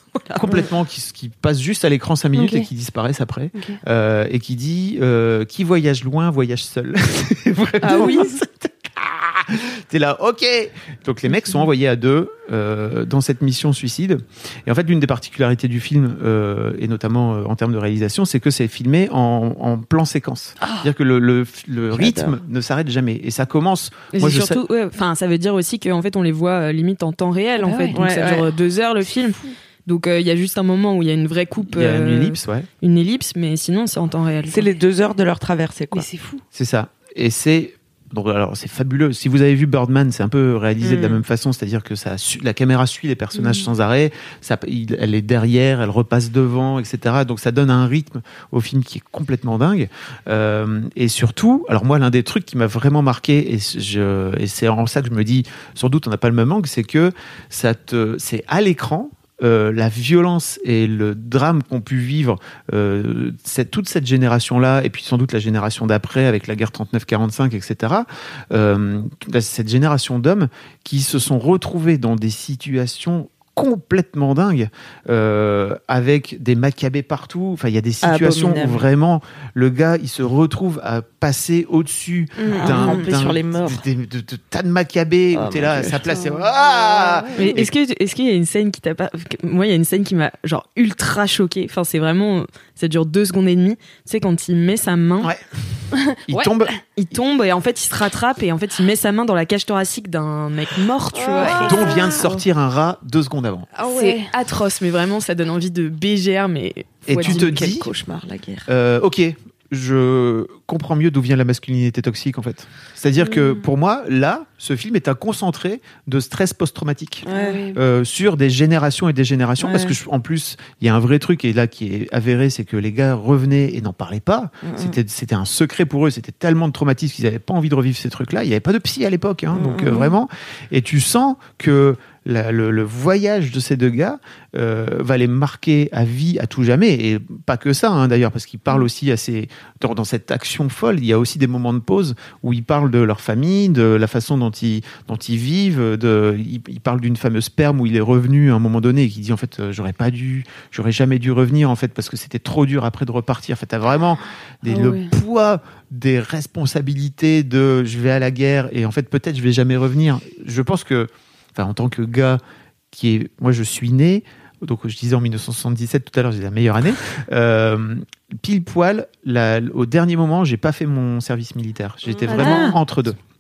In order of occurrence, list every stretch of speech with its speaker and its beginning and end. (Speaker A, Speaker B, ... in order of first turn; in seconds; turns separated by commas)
Speaker A: 0.4-24.6, Speaker B: 2.4-2.7, Speaker B: 3.5-3.8, Speaker B: 7.8-8.3, Speaker C: 7.9-8.2, Speaker B: 11.3-11.6, Speaker C: 21.9-22.4, Speaker D: 24.1-34.7, Speaker B: 27.6-28.0, Speaker C: 27.9-28.5, Speaker A: 31.7-32.7, Speaker C: 34.5-36.1, Speaker B: 35.9-36.4, Speaker A: 36.5-87.7, Speaker D: 40.8-41.2, Speaker B: 43.4-43.7, Speaker C: 78.0-78.9, Speaker D: 82.5-82.7, Speaker C: 82.5-83.8, Speaker C: 85.3-86.1, Speaker B: 86.2-87.6, Speaker D: 87.3-95.3, Speaker B: 96.2-96.5, Speaker A: 96.3-96.8, Speaker D: 97.0-101.9, Speaker C: 101.2-102.0, Speaker B: 101.4-102.4, Speaker A: 101.6-103.7, Speaker B: 103.8-104.3, Speaker D: 103.9-107.6, Speaker A: 107.1-107.9, Speaker C: 107.2-108.7, Speaker A: 108.7-162.4, Speaker B: 113.3-113.6, Speaker B: 117.2-117.8, Speaker C: 117.3-117.6, Speaker C: 119.6-120.0, Speaker C: 124.6-125.0, Speaker C: 129.5-130.1, Speaker B: 154.7-155.1, Speaker A: 162.9-173.2, Speaker C: 172.1-172.6, Speaker B: 172.3-172.7, Speaker D: 172.3-172.8